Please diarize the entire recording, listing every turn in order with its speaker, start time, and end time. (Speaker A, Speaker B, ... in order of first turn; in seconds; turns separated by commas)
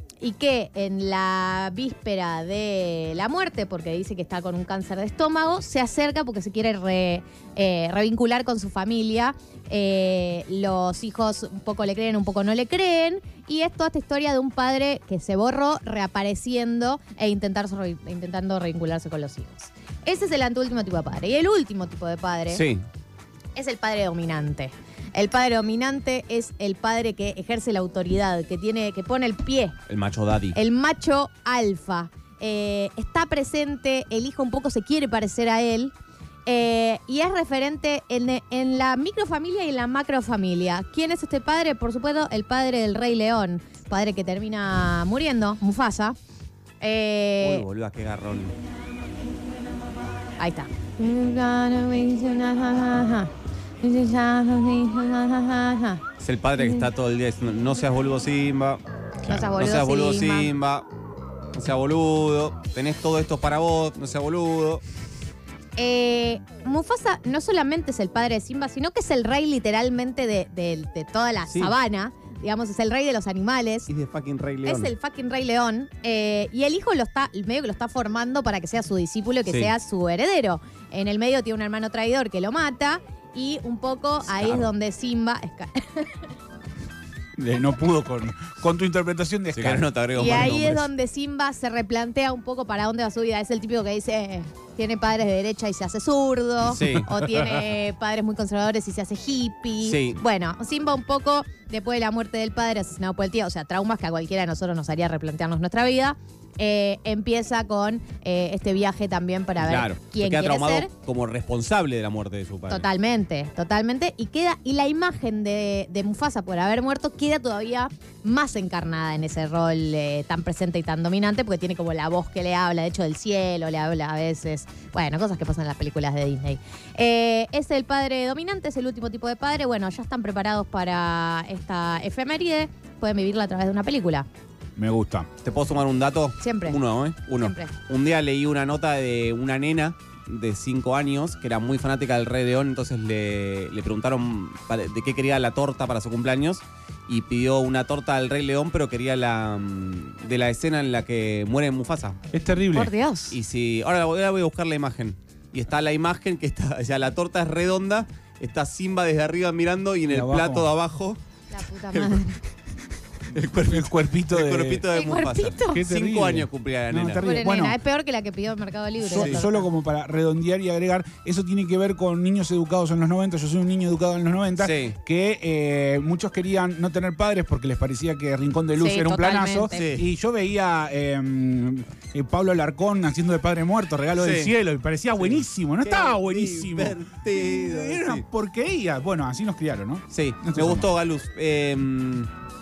Speaker A: 0.2-22.6, Speaker B: 22.5-22.8, Speaker A: 23.6-29.8, Speaker B: 29.9-30.6, Speaker A: 30.5-35.9, Speaker A: 36.5-46.2, Speaker A: 46.8-47.6, Speaker B: 47.4-48.5, Speaker A: 50.4-56.0, Speaker B: 56.2-60.9, Speaker A: 56.6-56.9, Speaker A: 59.3-60.5, Speaker B: 61.5-64.8, Speaker A: 65.8-73.9, Speaker B: 71.5-71.8, Speaker B: 73.9-74.9, Speaker A: 74.7-86.2, Speaker B: 79.5-79.7, Speaker B: 84.2-84.7, Speaker C: 87.4-90.0, Speaker B: 89.5-90.9, Speaker A: 90.2-110.9, Speaker B: 96.6-97.1, Speaker C: 96.8-97.6, Speaker B: 99.8-100.2, Speaker B: 109.6-112.9, Speaker A: 112.7-134.3, Speaker C: 134.8-135.3, Speaker B: 135.4-152.2, Speaker A: 136.4-136.8, Speaker A: 137.3-137.7, Speaker C: 152.3-152.9, Speaker A: 152.7-153.4, Speaker B: 153.3-161.2, Speaker C: 160.1-160.7, Speaker A: 161.5-162.4, Speaker B: 161.9-162.2, Speaker B: 163.3-167.2, Speaker C: 163.6-164.9, Speaker A: 164.9-165.9, Speaker C: 165.6-167.8, Speaker A: 167.2-169.7, Speaker C: 169.0-190.9, Speaker B: 169.1-169.4, Speaker B: 174.6-175.0, Speaker A: 178.8-179.9, Speaker B: 179.7-180.1, Speaker B: 184.2-184.5, Speaker B: 185.2-188.2, Speaker B: 190.1-192.3